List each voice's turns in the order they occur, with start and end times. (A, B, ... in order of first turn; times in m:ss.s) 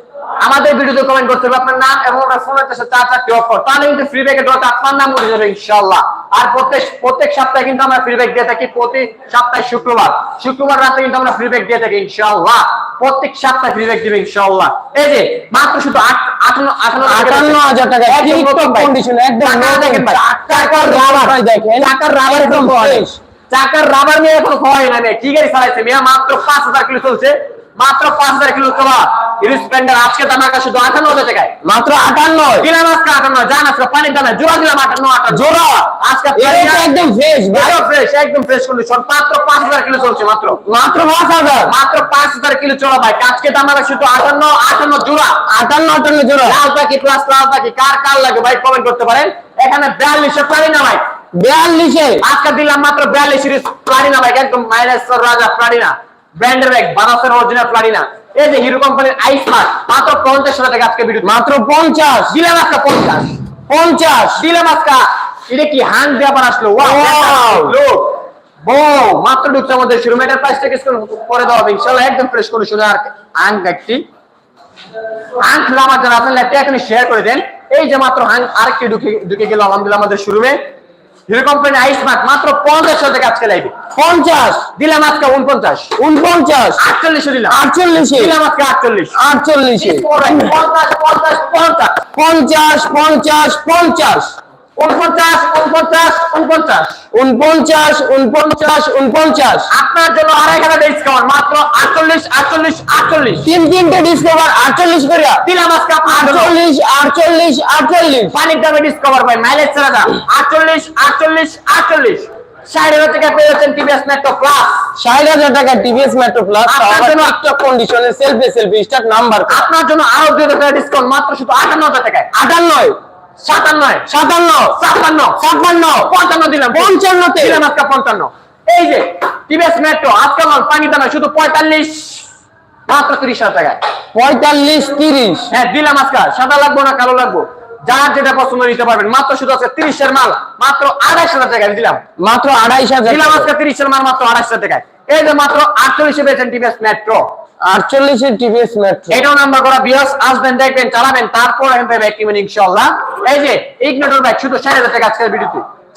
0:00.4-0:18.9 A
0:17.0-0:23.2 B
0:19.4-0:31.5 A
0:31.6-0:32.7 B
0:32.6-0:35.5 A
0:35.3-0:37.8 B
0:36.0-0:36.9 A
0:37.5-0:40.6 A
0:40.6-0:41.7 B
0:41.6-0:45.4 A
0:45.5-0:46.6 B
0:46.4-0:51.0 A
0:51.3-0:52.2 B
0:52.2-1:01.3 A
1:01.2-1:02.3 B
1:02.3-1:03.4 A
1:03.7-1:04.4 B
1:04.4-1:14.0 A
1:06.8-1:07.7 B
1:15.4-1:20.6 A
1:21.3-1:23.7 A
1:23.9-1:24.7 B
1:24.8-1:25.9 A
1:26.0-1:26.8 B
1:26.8-1:27.6 A
1:27.5-1:28.4 B
1:28.1-1:29.2 A
1:29.2-1:30.5 B
1:29.8-1:32.0 A
1:32.2-1:34.4 B
1:34.8-1:37.0 A
1:37.1-1:39.7 B
1:39.7-1:43.4 A
1:43.4-1:45.4 B
1:45.4-1:46.5 A
1:46.1-1:48.3 B
1:48.3-1:54.8 A
1:55.0-1:59.7 B
1:56.6-1:57.3 A
1:59.5-2:02.3 A
2:02.3-2:03.0 B
2:03.4-2:04.1 A
2:04.1-2:04.8 B
2:04.7-2:05.4 A
2:05.4-2:06.1 B
2:06.0-2:12.3 A
2:06.7-2:07.6 B
2:12.9-2:13.8 A
2:14.1-2:15.5 B
2:15.5-2:22.0 A
2:22.2-2:23.5 B
2:23.0-2:27.4 A
2:27.6-2:29.2 B
2:29.1-2:35.6 A